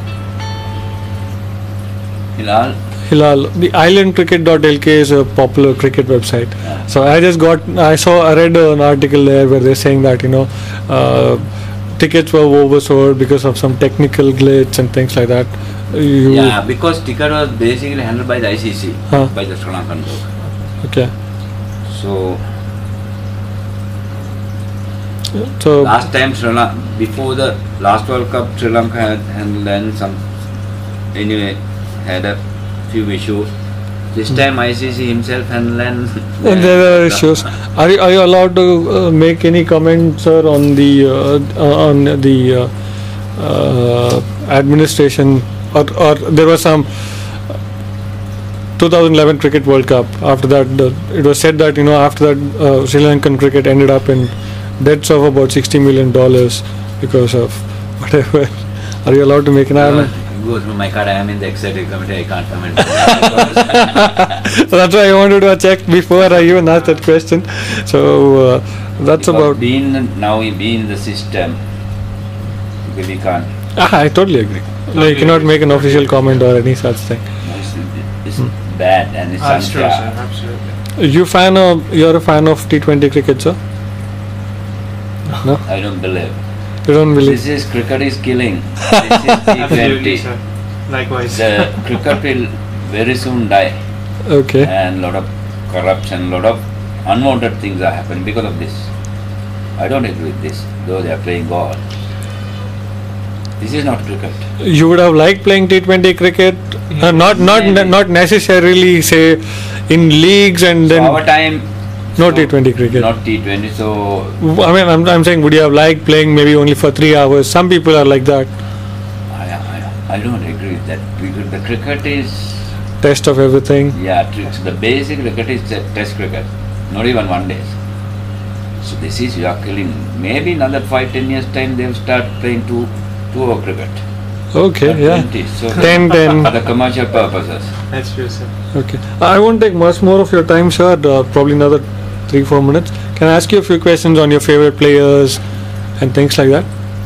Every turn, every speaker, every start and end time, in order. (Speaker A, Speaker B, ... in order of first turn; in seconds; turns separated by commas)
Speaker A: 2.4-2.8, Speaker B: 3.1-16.6, Speaker A: 16.3-20.3, Speaker B: 20.8-21.1, Speaker A: 21.9-22.4, Speaker B: 25.4-25.9, Speaker A: 25.8-30.2, Speaker A: 31.1-33.5, Speaker A: 34.1-37.5, Speaker B: 36.4-47.6, Speaker B: 48.8-60.1, Speaker A: 59.8-64.3, Speaker B: 63.6-69.6, Speaker A: 69.2-71.6, Speaker A: 72.8-73.5, Speaker B: 73.8-77.4, Speaker C: 74.9-76.5, Speaker A: 77.4-80.1, Speaker C: 79.4-80.8, Speaker B: 81.0-83.6, Speaker A: 85.6-86.4, Speaker B: 86.8-87.4, Speaker A: 87.1-90.3, Speaker C: 89.6-91.9, Speaker A: 91.3-93.8, Speaker B: 94.2-94.7, Speaker A: 94.6-98.9, Speaker A: 99.8-101.8, Speaker A: 103.6-104.5, Speaker B: 104.6-111.2, Speaker C: 106.9-107.4, Speaker A: 107.4-107.9, Speaker A: 110.9-114.4, Speaker B: 112.2-113.1, Speaker B: 114.4-118.6, Speaker A: 119.3-122.7, Speaker B: 123.0-124.0, Speaker A: 123.9-127.8, Speaker A: 128.8-134.0, Speaker B: 134.5-136.5, Speaker A: 134.8-137.7, Speaker C: 137.9-138.5, Speaker B: 138.7-146.7